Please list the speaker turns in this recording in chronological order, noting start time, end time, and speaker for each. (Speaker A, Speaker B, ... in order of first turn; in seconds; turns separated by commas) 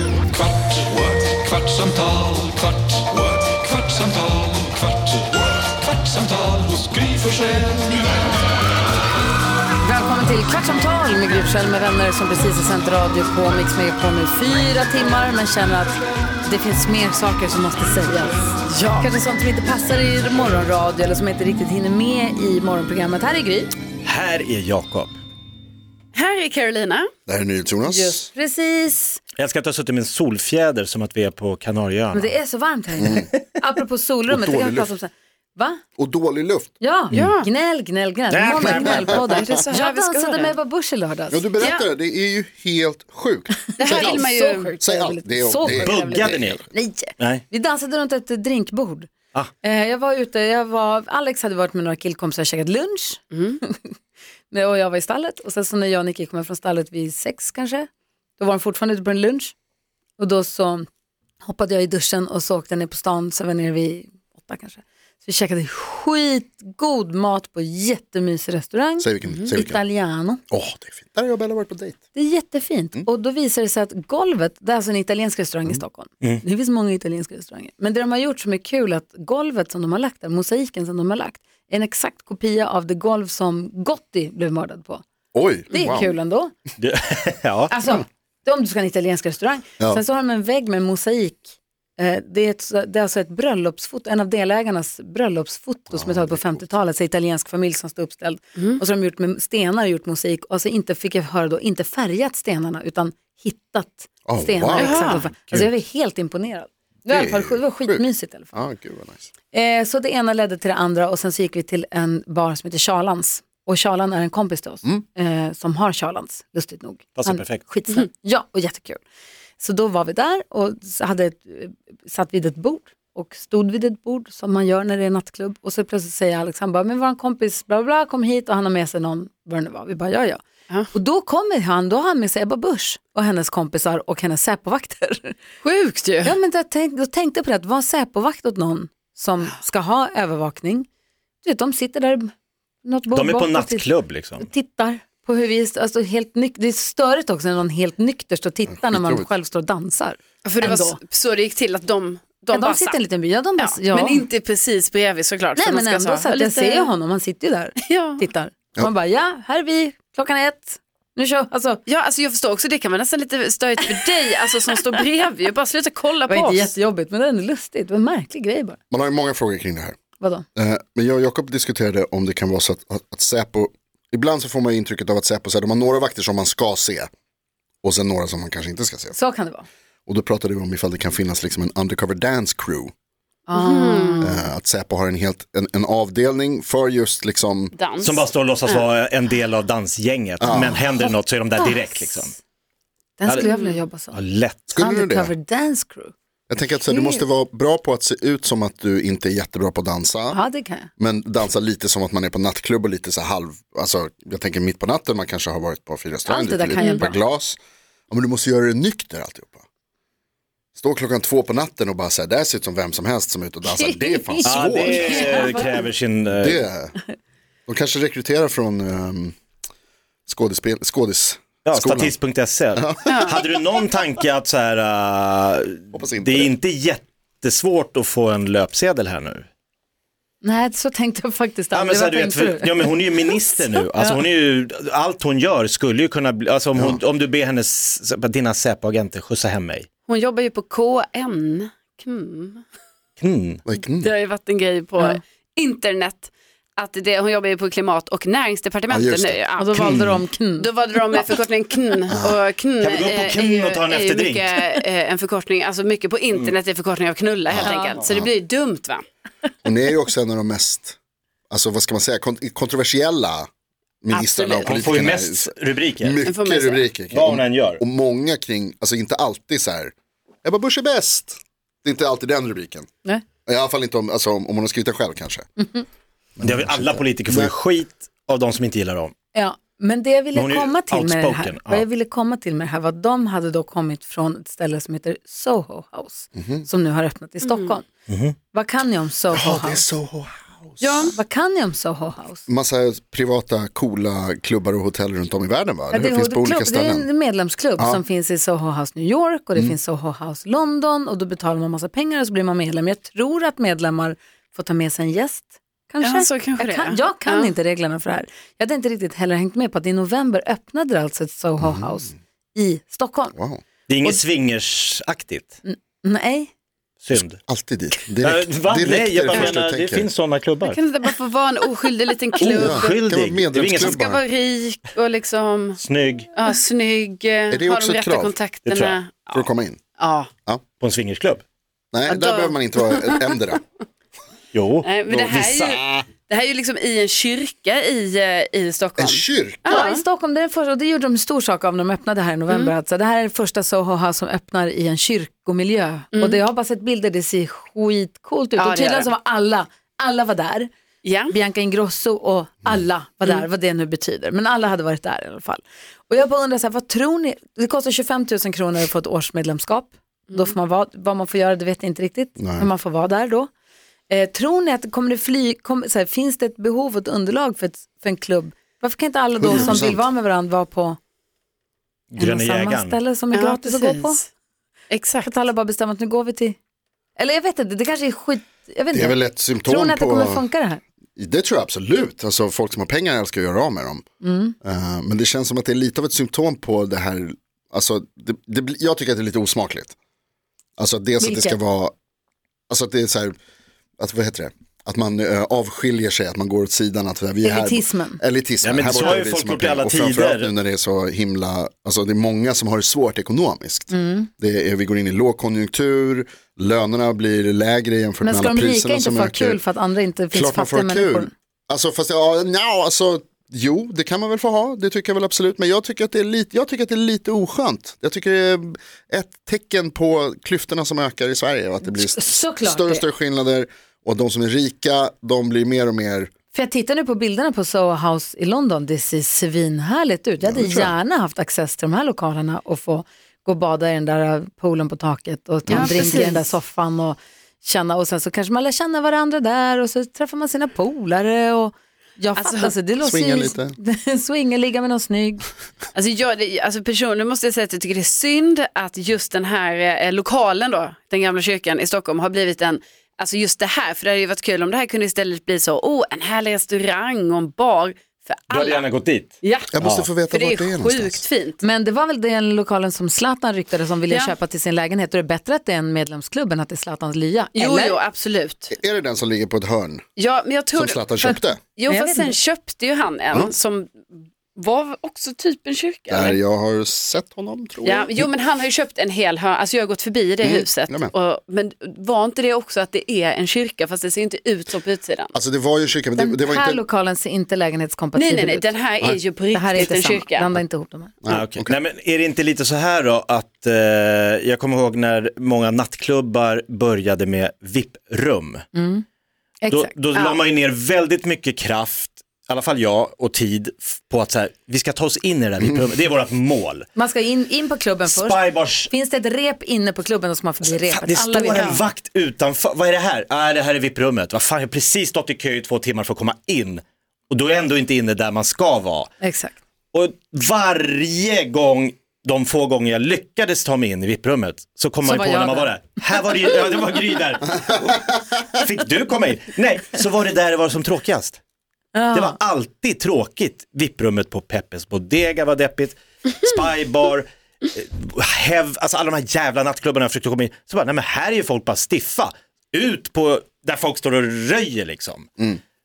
Speaker A: 0.4-4.8, Speaker A: 6.0-7.7, Speaker B: 9.8-23.8, Speaker C: 18.6-19.1, Speaker D: 24.0-25.2, Speaker C: 26.1-27.1, Speaker E: 27.3-28.3, Speaker B: 27.9-29.2, Speaker D: 29.4-32.3, Speaker B: 32.1-35.8, Speaker E: 33.0-33.3, Speaker E: 34.3-34.9, Speaker E: 36.0-37.2, Speaker B: 36.8-41.5, Speaker C: 37.1-37.5, Speaker D: 38.3-39.4, Speaker E: 38.6-39.2, Speaker C: 39.1-40.5, Speaker E: 41.3-44.3, Speaker C: 41.6-41.8, Speaker B: 43.7-49.1, Speaker C: 43.8-44.7, Speaker E: 44.8-46.6, Speaker D: 45.7-46.6, Speaker B: 49.6-54.0, Speaker C: 53.3-53.6, Speaker B: 54.5-59.5, Speaker B: 60.2-60.9, Speaker B: 61.4-70.4, Speaker E: 69.0-69.8, Speaker E: 70.5-72.0, Speaker B: 72.2-85.0, Speaker E: 85.3-86.2, Speaker B: 85.7-86.5, Speaker D: 86.8-87.8, Speaker B: 87.7-108.5, Speaker E: 95.9-96.7, Speaker E: 104.3-105.7, Speaker C: 104.8-105.2, Speaker E: 107.1-109.3, Speaker B: 109.5-119.0, Speaker D: 117.2-117.6, Speaker B: 119.6-130.4, Speaker B: 130.9-135.4, Speaker C: 135.6-136.3, Speaker B: 136.2-140.9, Speaker B: 141.4-142.3, Speaker B: 142.8-151.0, Speaker D: 143.1-144.5, Speaker E: 148.7-149.3, Speaker C: 150.4-153.0, Speaker B: 152.5-154.2, Speaker C: 153.6-156.9, Speaker B: 155.6-161.8, Speaker C: 157.8-158.3, Speaker C: 161.9-166.7, Speaker B: 166.3-168.8, Speaker E: 168.9-170.0, Speaker B: 170.2-170.5, Speaker E: 170.6-177.1, Speaker E: 177.8-179.2, Speaker B: 179.1-179.7, Speaker E: 180.1-182.9, Speaker B: 183.5-184.5, Speaker C: 183.5-184.3, Speaker E: 184.2-187.8, Speaker C: 187.7-188.9, Speaker D: 188.0-192.3, Speaker E: 190.4-190.8, Speaker B: 191.6-192.3, Speaker B: 193.2-194.2, Speaker C: 193.4-193.8, Speaker D: 194.1-194.8, Speaker E: 194.7-195.3, Speaker B: 194.8-196.1, Speaker E: 196.5-200.4, Speaker B: 196.8-197.2, Speaker B: 200.3-200.9, Speaker E: 201.0-207.6, Speaker B: 206.3-207.2, Speaker C: 206.8-207.0, Speaker E: 208.1-209.6, Speaker E: 210.8-215.4, Speaker B: 213.7-215.9, Speaker D: 214.4-216.6, Speaker E: 216.4-216.9, Speaker E: 217.7-219.4, Speaker E: 220.3-222.1, Speaker D: 221.7-229.5, Speaker C: 223.1-223.4, Speaker E: 225.9-226.6, Speaker B: 230.4-234.2, Speaker D: 231.7-239.9, Speaker E: 236.8-237.0, Speaker C: 240.1-242.6, Speaker D: 243.2-243.6, Speaker E: 243.7-244.1, Speaker C: 244.0-259.0, Speaker E: 248.9-249.4, Speaker B: 249.6-251.3, Speaker D: 249.8-250.2, Speaker E: 252.1-252.4, Speaker D: 252.8-254.5, Speaker E: 257.5-258.3, Speaker B: 257.6-258.0, Speaker E: 259.6-261.0, Speaker E: 261.5-263.5, Speaker E: 264.0-269.9, Speaker C: 264.1-264.8, Speaker D: 264.6-266.2, Speaker C: 266.2-266.9, Speaker D: 267.1-267.8, Speaker E: 270.4-272.9, Speaker E: 273.5-275.5, Speaker E: 276.4-277.5, Speaker D: 276.4-279.1, Speaker B: 279.3-287.9, Speaker D: 280.3-281.9, Speaker E: 286.4-286.7, Speaker C: 287.4-287.7, Speaker D: 288.1-288.4, Speaker B: 288.5-289.9, Speaker E: 289.3-291.2, Speaker B: 290.8-292.4, Speaker E: 292.5-297.1, Speaker B: 295.9-313.4, Speaker C: 306.0-307.5, Speaker E: 311.6-312.1, Speaker E: 313.4-313.6, Speaker D: 313.9-315.6, Speaker B: 315.6-316.5, Speaker D: 317.0-317.4, Speaker E: 317.1-320.1, Speaker D: 318.2-320.8, Speaker C: 320.6-323.0, Speaker D: 322.4-324.0, Speaker E: 322.5-324.2, Speaker C: 323.8-325.8, Speaker D: 325.8-326.3, Speaker C: 326.3-329.5, Speaker E: 327.5-328.4, Speaker D: 328.7-329.0, Speaker E: 329.3-329.8, Speaker C: 330.0-330.3, Speaker D: 330.8-331.4, Speaker E: 331.9-333.6, Speaker C: 332.1-333.3, Speaker D: 334.5-335.6, Speaker C: 334.8-340.0, Speaker E: 335.1-336.1, Speaker E: 339.0-339.9, Speaker B: 339.7-350.7, Speaker C: 346.1-346.4, Speaker C: 348.6-349.1, Speaker C: 351.0-351.3, Speaker B: 351.3-363.5, Speaker E: 362.4-362.7, Speaker B: 364.1-371.0, Speaker E: 369.4-370.1, Speaker D: 372.1-373.0, Speaker B: 372.2-374.2, Speaker C: 373.3-374.2, Speaker C: 374.9-375.3, Speaker B: 375.2-376.6, Speaker B: 377.2-380.8, Speaker E: 378.9-380.5, Speaker E: 381.2-384.0, Speaker B: 384.2-384.6, Speaker E: 384.6-389.9, Speaker E: 390.8-391.9, Speaker B: 391.2-391.6, Speaker E: 392.7-393.4, Speaker E: 394.0-409.6, Speaker B: 397.4-398.2, Speaker D: 398.6-400.5, Speaker B: 403.9-404.3, Speaker B: 408.2-411.3, Speaker E: 410.3-426.3, Speaker B: 421.9-423.1, Speaker B: 426.5-445.5, Speaker E: 430.4-430.9, Speaker E: 435.7-436.1, Speaker C: 435.7-436.5, Speaker C: 442.4-442.7, Speaker E: 443.0-443.8, Speaker C: 445.9-458.9, Speaker D: 458.5-460.1, Speaker C: 459.4-459.7, Speaker E: 459.7-461.2, Speaker C: 460.2-461.6, Speaker B: 461.6-468.0, Speaker C: 464.1-464.4, Speaker C: 467.6-468.7, Speaker E: 468.7-470.0, Speaker C: 470.2-476.4, Speaker E: 470.7-471.6, Speaker B: 471.9-472.4, Speaker E: 476.1-478.3, Speaker C: 477.8-485.3, Speaker E: 480.4-481.1, Speaker E: 485.3-486.8, Speaker B: 486.2-488.8, Speaker C: 488.1-490.5, Speaker B: 489.5-491.1, Speaker E: 491.2-491.8, Speaker D: 491.3-498.6, Speaker B: 498.7-499.1, Speaker B: 499.6-500.2, Speaker D: 499.7-506.9, Speaker B: 506.9-511.9, Speaker D: 508.1-508.9, Speaker D: 510.7-519.1, Speaker C: 511.6-511.8, Speaker B: 519.2-519.6, Speaker D: 519.9-531.4, Speaker B: 525.0-525.8, Speaker B: 531.9-532.4, Speaker D: 532.1-545.3